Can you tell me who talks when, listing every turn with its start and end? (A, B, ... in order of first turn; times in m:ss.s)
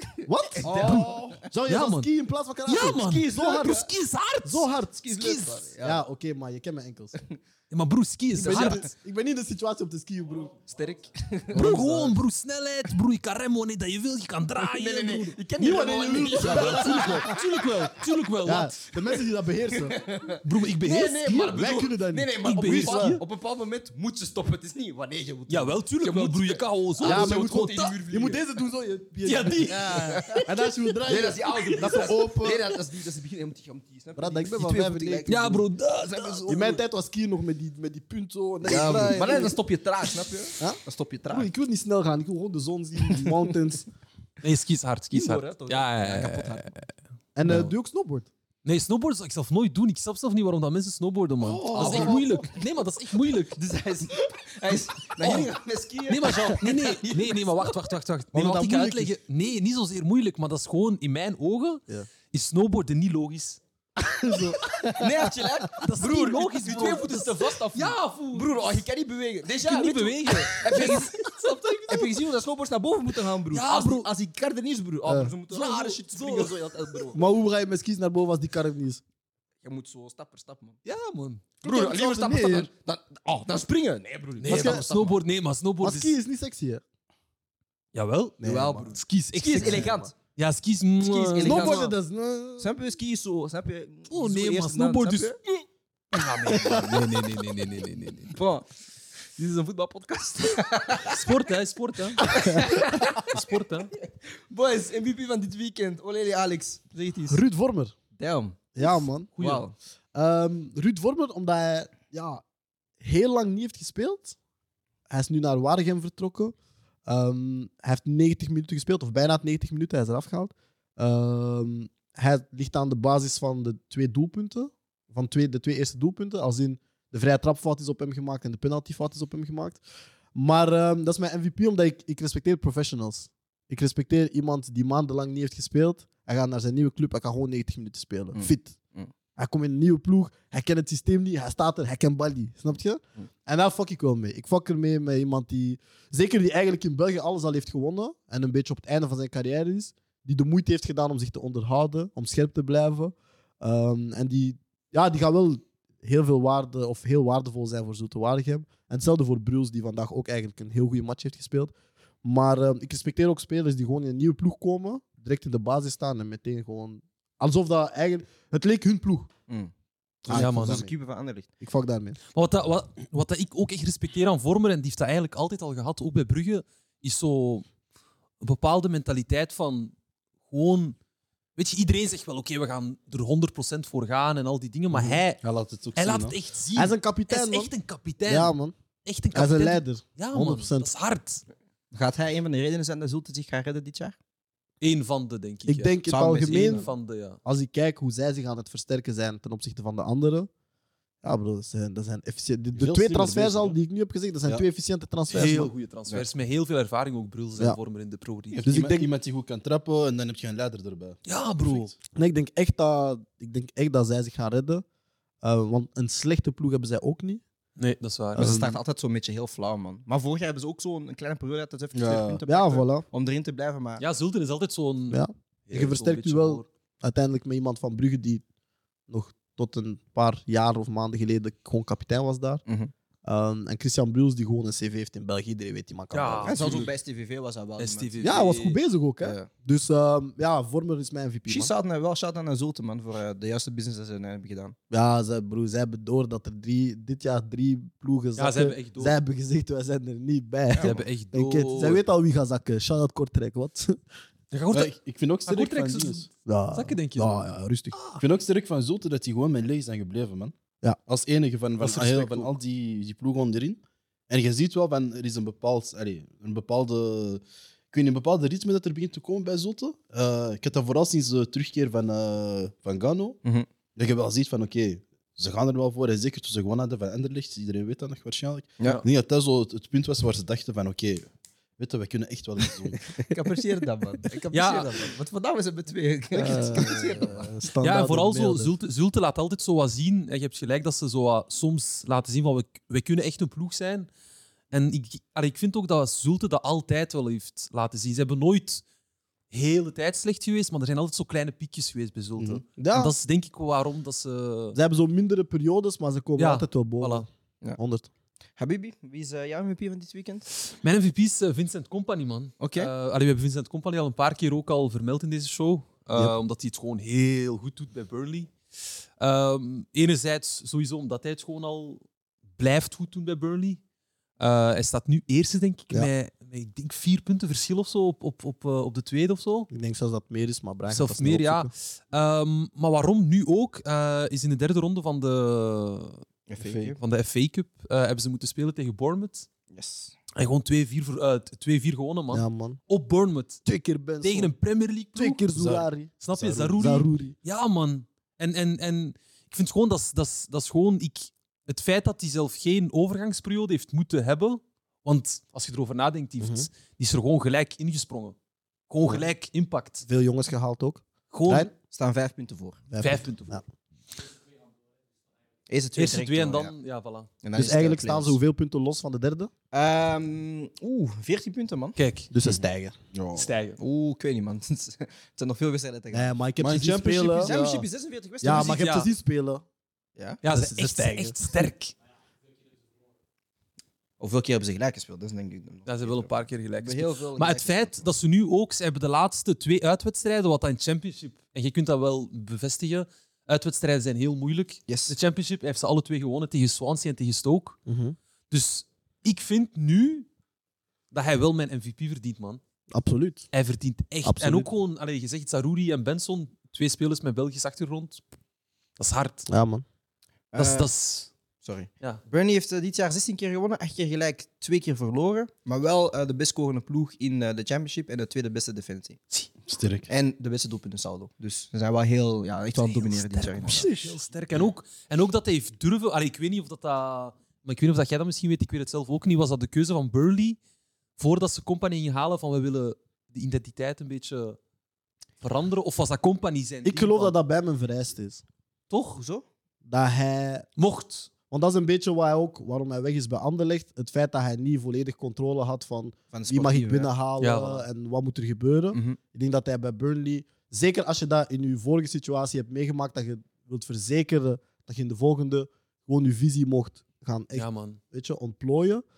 0:00.2-0:03.9 A
0:00.5-0:01.4 B
0:00.6-0:01.0 C
0:00.6-0:01.4 D
0:01.6-0:02.1 C
0:02.6-0:05.7 C
0:02.9-0:03.9 B
0:04.4-0:07.2 A
0:05.0-0:06.0 B
0:07.7-0:08.9 C
0:08.4-0:08.9 B
0:08.4-0:10.5 A
0:10.7-0:11.9 B
0:11.5-0:15.4 C
0:11.5-0:12.2 A
0:14.6-0:17.3 B
0:15.6-0:17.4 A
0:16.2-0:18.8 C
0:18.4-0:20.0 A
0:19.7-0:28.4 B
0:20.4-0:21.7 C
0:21.4-0:23.2 A
0:22.4-0:23.2 C
0:25.5-0:28.0 C
0:27.0-0:32.7 A
0:29.2-0:32.1 C
0:29.7-0:30.4 B
0:31.0-0:36.8 B
0:34.2-0:35.4 A
0:35.3-0:36.6 C
0:36.5-0:39.6 A
0:38.6-0:41.5 B
0:40.6-0:43.9 A
0:44.4-0:46.9 C
0:45.1-0:46.8 B
0:47.4-0:48.3 A
0:47.4-0:47.7 C
0:48.6-0:53.6 C
0:51.6-0:52.5 B
0:51.6-0:52.1 A
0:51.7-0:52.2 D
0:53.5-0:57.7 B
0:55.1-0:55.5 C
0:56.1-1:03.6 C
0:58.3-0:59.1 A
1:04.0-1:05.3 A
1:04.8-1:11.2 B
1:05.8-1:08.8 C
1:09.6-1:12.1 C
1:11.9-1:17.2 B
1:13.5-1:14.1 C
1:15.1-1:15.3 A
1:15.5-1:16.6 C
1:17.1-1:19.0 A
1:19.6-1:20.8 B
1:20.8-1:21.4 C
1:21.6-1:22.7 A
1:21.6-1:25.1 B
1:24.4-1:26.1 C
1:24.5-1:25.1 A
1:25.8-1:26.8 A
1:27.9-1:31.7 C
1:28.4-1:28.9 A
1:29.3-1:30.1 B
1:29.6-1:30.1 A
1:31.1-1:32.7 A
1:31.1-1:31.9 B
1:32.6-1:35.4 B
1:34.1-1:35.5 C
1:36.1-1:38.4 C
1:36.6-1:37.0 A
1:38.3-1:38.7 B
1:39.4-1:41.2 B
1:41.0-1:43.9 C
1:42.2-1:43.3 B
1:44.5-1:47.4 B
1:47.3-1:47.9 A
1:48.2-1:48.7 B
1:48.7-1:49.3 A
1:49.4-1:49.6 C
1:49.4-1:49.7 B
1:50.1-1:52.4 A
1:53.0-1:54.4 A
1:55.1-1:56.5 A
1:57.0-2:09.8 A
2:10.3-2:18.8 A
2:18.3-2:19.1 B
2:19.4-2:41.7 A
2:42.2-2:49.3 A
2:50.2-2:51.5 B
2:50.2-2:50.9 A
2:50.3-2:50.8 C
2:51.6-2:52.2 A
2:52.3-2:57.6 C
2:58.4-2:59.9 C
3:00.4-3:01.0 C
3:01.6-3:05.4 C
3:04.9-3:05.2 A
3:05.4-3:06.3 D
3:06.0-3:08.5 C
3:06.7-3:07.7 A
3:08.2-3:08.7 A
3:09.0-3:11.4 C
3:09.3-3:10.9 A
3:11.9-3:14.2 B
3:14.8-3:17.4 C
3:15.6-3:16.9 A
3:16.1-3:16.9 B
3:17.4-3:20.5 A
3:21.2-3:25.7 A
3:22.8-3:23.8 D
3:25.3-3:28.6 C
3:28.5-3:31.9 D
3:28.6-3:29.1 A
3:31.2-3:31.9 C
3:32.1-3:34.8 A
3:35.4-3:37.4 A
3:37.8-3:38.6 C
3:38.3-3:44.0 B
3:38.4-3:38.8 A
3:41.9-3:42.4 D
3:42.5-3:43.0 A
3:44.0-3:46.6 C
3:45.1-3:48.4 A
3:49.1-3:52.6 A
3:52.6-3:52.9 B
3:53.2-3:56.8 A
3:56.1-3:56.9 C
3:56.4-3:58.5 B
3:57.8-3:58.8 C
3:58.2-4:01.7 A
3:59.2-3:59.5 B
4:01.5-4:04.7 B
4:04.9-4:14.0 A
4:08.4-4:09.1 C
4:10.8-4:12.0 C
4:14.5-4:14.9 C
4:14.7-4:16.3 D
4:15.4-4:18.2 C
4:16.4-4:18.0 A
4:18.2-4:20.5 D
4:21.0-4:33.4 D
4:21.8-4:22.5 A
4:21.9-4:22.2 C
4:33.9-4:43.1 D
4:43.2-4:47.5 B
4:44.5-4:45.0 C
4:46.3-4:48.7 A
4:47.8-4:54.1 C
4:54.7-4:58.8 C
4:59.5-5:04.8 C
5:02.4-5:02.6 D
5:02.8-5:03.1 A
5:04.7-5:08.1 A
5:06.4-5:07.2 C
5:08.6-5:10.5 B
5:10.8-5:18.5 C
5:12.6-5:12.9 B
5:19.2-5:22.0 C
5:22.6-5:23.8 C
5:24.4-5:29.7 C
5:29.7-5:31.7 A
5:30.9-5:36.2 C
5:36.5-5:37.0 B
5:36.6-5:36.9 D
5:37.0-5:39.5 C
5:39.7-5:40.1 B
5:40.3-5:43.6 C
5:42.3-5:42.8 A
5:43.6-5:44.5 A
5:44.2-5:45.5 C
5:45.1-5:47.3 A
5:45.5-5:46.8 D
5:46.2-5:58.4 C
5:56.4-5:56.6 A
5:58.9-6:00.0 C
6:00.0-6:01.7 A
6:01.3-6:01.7 C
6:01.9-6:02.8 B
6:02.9-6:03.6 A
6:03.0-6:03.6 C
6:05.7-6:06.7 B
6:06.0-6:07.3 C
6:07.4-6:08.4 B
6:07.5-6:09.5 A
6:09.7-6:12.0 B
6:12.0-6:12.3 C
6:12.3-6:13.0 A
6:13.1-6:13.5 D
6:13.3-6:13.8 C
6:13.8-6:16.4 B
6:16.1-6:17.5 A
6:16.6-6:17.8 D
6:17.4-6:18.8 B
6:18.4-6:19.6 A
6:18.5-6:19.1 C
6:20.2-6:20.4 B
6:20.4-6:21.9 C
6:20.5-6:21.7 A
6:24.2-6:28.0 B
6:25.9-6:37.8 C
6:34.9-6:35.1 B
6:37.9-6:38.2 A
6:38.5-6:40.3 C
6:41.1-6:42.6 C
6:42.9-6:43.5 A
6:43.5-6:48.2 C
6:44.2-6:44.7 A
6:49.0-6:49.4 C
6:49.5-6:49.8 A
6:50.5-6:50.9 B
6:50.6-6:51.3 C
6:51.6-6:59.2 B
6:59.6-7:00.1 D
7:00.1-7:03.9 B
7:02.7-7:10.6 C
7:03.8-7:04.1 D
7:11.2-7:14.6 C
7:15.4-7:17.3 C
7:16.8-7:18.4 A
7:18.9-7:19.4 B
7:19.8-7:20.7 A
7:20.8-7:21.3 C
7:21.5-7:39.0 A
7:26.3-7:27.1 B
7:27.4-7:27.8 C
7:28.9-7:29.2 B
7:37.5-7:38.0 C